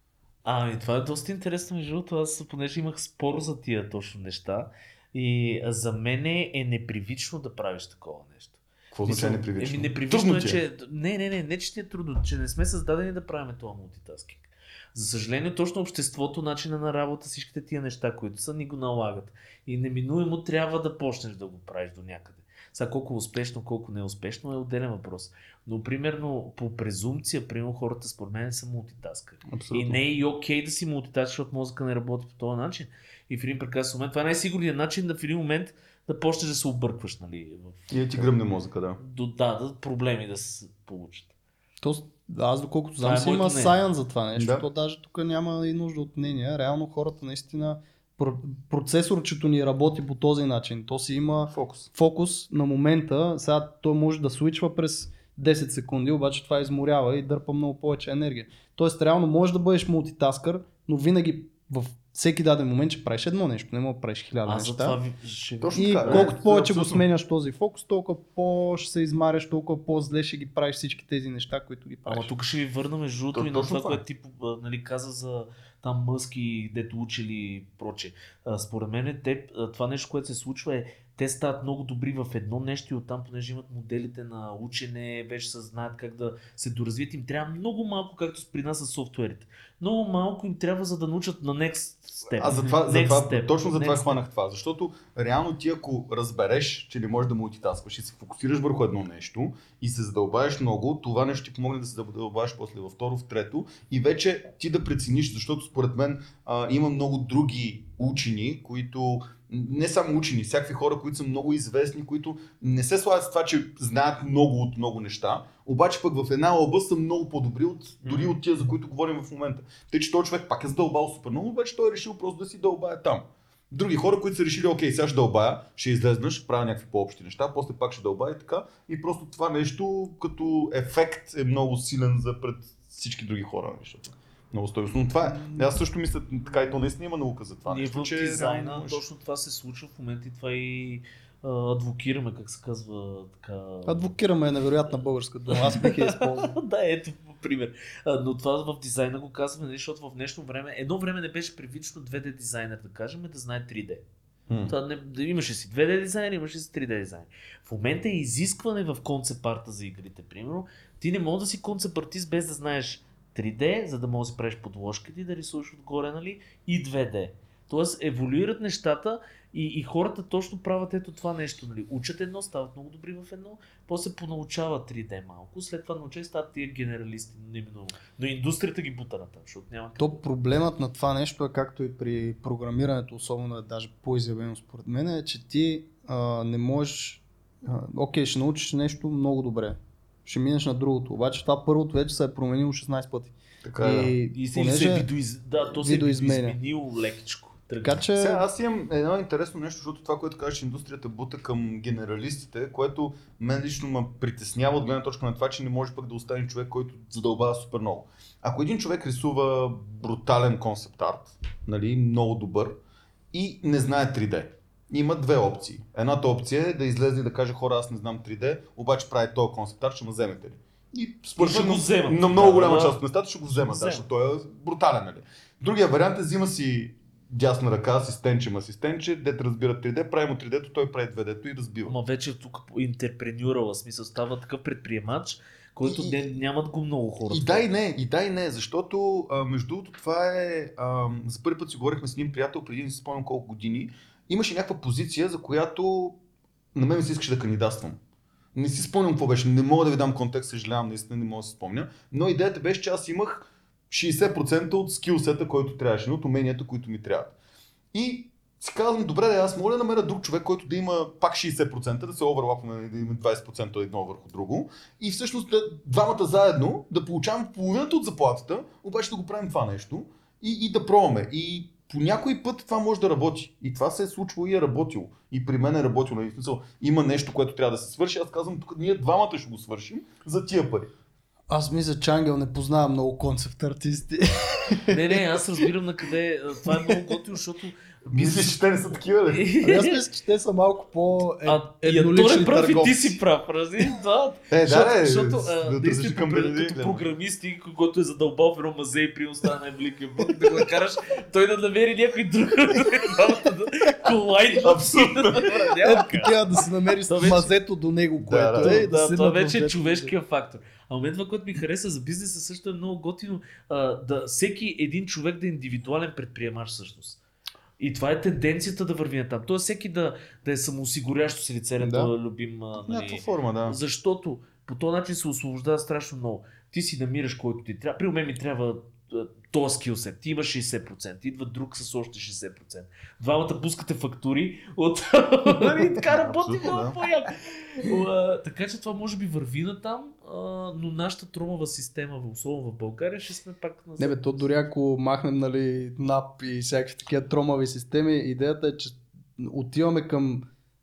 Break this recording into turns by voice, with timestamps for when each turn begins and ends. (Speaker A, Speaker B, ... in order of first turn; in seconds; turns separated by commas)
Speaker A: 0.4-37.9, Speaker B: 8.9-10.6, Speaker B: 29.5-30.0, Speaker B: 37.9-39.0, Speaker A: 39.0-41.3, Speaker C: 41.8-65.0, Speaker A: 43.0-43.8, Speaker B: 44.4-44.6, Speaker B: 51.5-51.9, Speaker A: 64.5-66.3, Speaker B: 65.6-67.1, Speaker C: 65.8-72.3, Speaker A: 72.1-94.2, Speaker B: 73.3-74.0, Speaker B: 92.4-139.0, Speaker C: 92.5-92.8, Speaker C: 135.3-135.7, Speaker A: 137.7-144.1, Speaker C: 143.9-146.6, Speaker A: 145.5-154.0, Speaker B: 154.5-154.8, Speaker A: 154.7-180.2, Speaker C: 180.0-196.6, Speaker B: 193.6-194.2, Speaker A: 194.3-198.1, Speaker C: 197.8-198.4, Speaker B: 198.2-212.8, Speaker B: 213.3-232.0, Speaker A: 221.4-223.0, Speaker A: 223.5-224.0, Speaker A: 231.9-237.7, Speaker B: 235.8-236.2, Speaker B: 237.3-246.2, Speaker B: 246.8-248.0, Speaker B: 248.5-257.4, Speaker B: 257.9-280.9, Speaker C: 281.5-285.7, Speaker A: 284.9-288.5, Speaker C: 286.9-287.2, Speaker B: 288.1-289.4, Speaker A: 289.3-290.0, Speaker C: 289.6-293.2, Speaker A: 291.4-306.4, Speaker B: 294.5-297.1, Speaker B: 304.6-305.8, Speaker C: 305.8-310.1, Speaker A: 307.0-307.5, Speaker B: 308.2-308.9, Speaker A: 308.6-317.2, Speaker A: 317.8-344.5, Speaker C: 321.8-322.1, Speaker B: 322.8-323.8, Speaker B: 336.1-337.0, Speaker C: 344.0-350.5